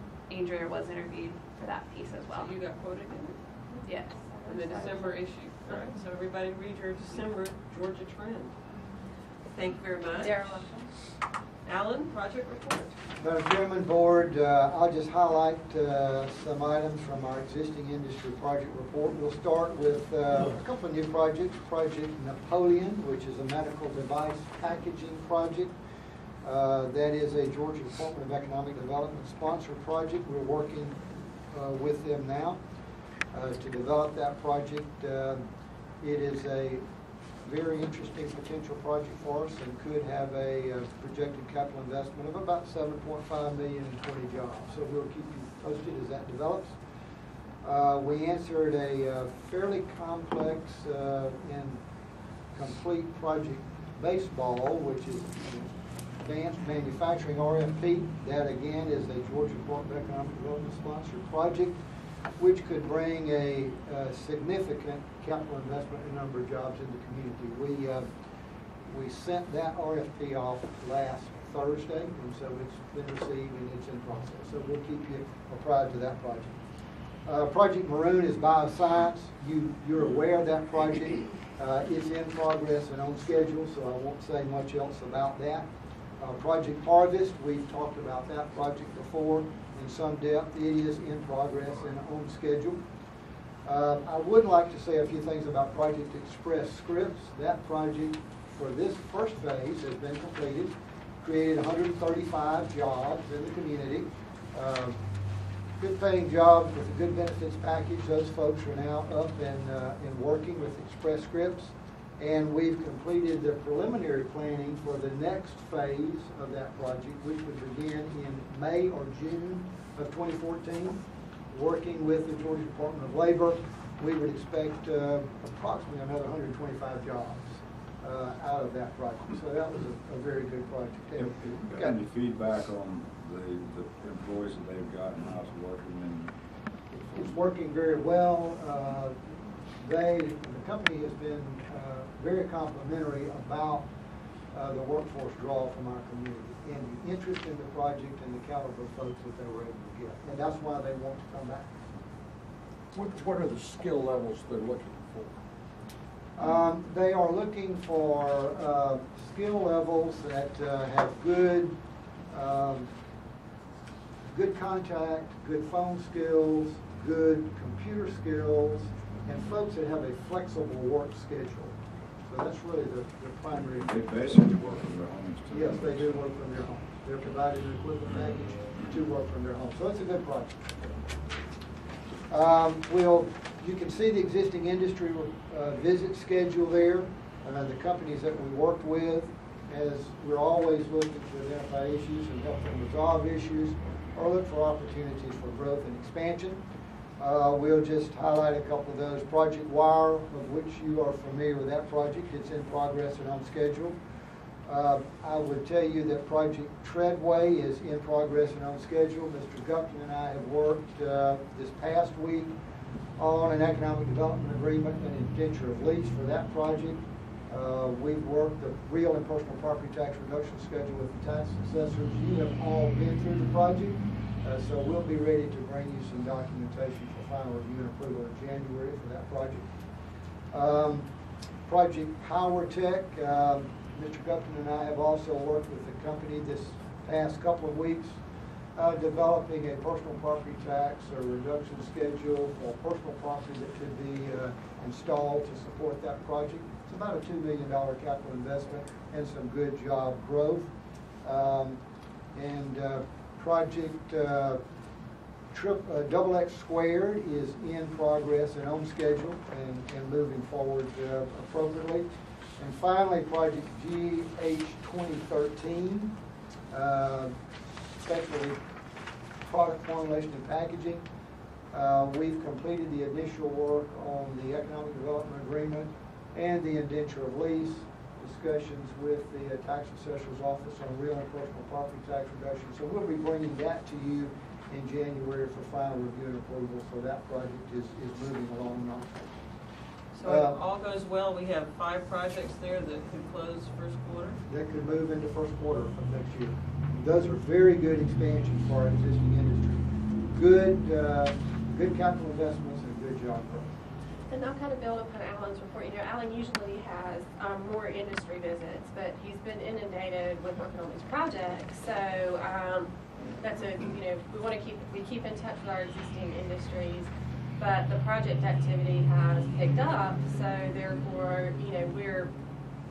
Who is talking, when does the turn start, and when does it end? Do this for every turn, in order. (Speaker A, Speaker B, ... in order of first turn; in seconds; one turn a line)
Speaker A: 0.3-2.5
Speaker B: 2.3-3.4
Speaker C: 3.7-5.2
Speaker A: 3.8-5.0
Speaker B: 4.5-8.6
Speaker B: 9.5-10.7
Speaker C: 10.2-10.9
Speaker B: 11.6-12.9
Speaker D: 13.2-25.7
Speaker D: 26.4-31.0
Speaker D: 31.5-32.6
Speaker D: 33.3-35.4
Speaker D: 36.0-36.8
Speaker D: 37.4-46.8
Speaker D: 47.6-51.8
Speaker D: 52.5-61.8
Speaker D: 62.4-68.1
Speaker D: 68.9-76.6
Speaker D: 77.2-85.7
Speaker D: 86.2-92.8
Speaker D: 93.6-105.0
Speaker D: 105.8-132.0
Speaker E: 131.2-136.3
Speaker D: 136.9-139.2
Speaker D: 139.8-143.9
Speaker D: 144.5-151.7
Speaker F: 152.9-155.3
Speaker D: 156.3-161.7
Speaker D: 162.3-162.9
Speaker D: 164.3-174.6
Speaker E: 173.6-176.2
Speaker D: 175.5-180.7
Speaker D: 182.3-196.6
Speaker D: 197.2-204.0
Speaker D: 204.6-212.5
Speaker D: 213.2-229.7
Speaker D: 230.5-231.1
Speaker D: 231.7-238.2
Speaker D: 238.8-250.7
Speaker D: 251.2-251.8
Speaker D: 252.3-254.6
Speaker D: 255.5-262.1
Speaker D: 262.6-266.1
Speaker D: 266.7-267.3
Speaker D: 268.0-268.6
Speaker D: 269.4-271.0
Speaker D: 271.7-289.2
Speaker B: 290.1-294.4
Speaker D: 290.2-290.6
Speaker D: 294.5-303.7
Speaker C: 304.3-322.3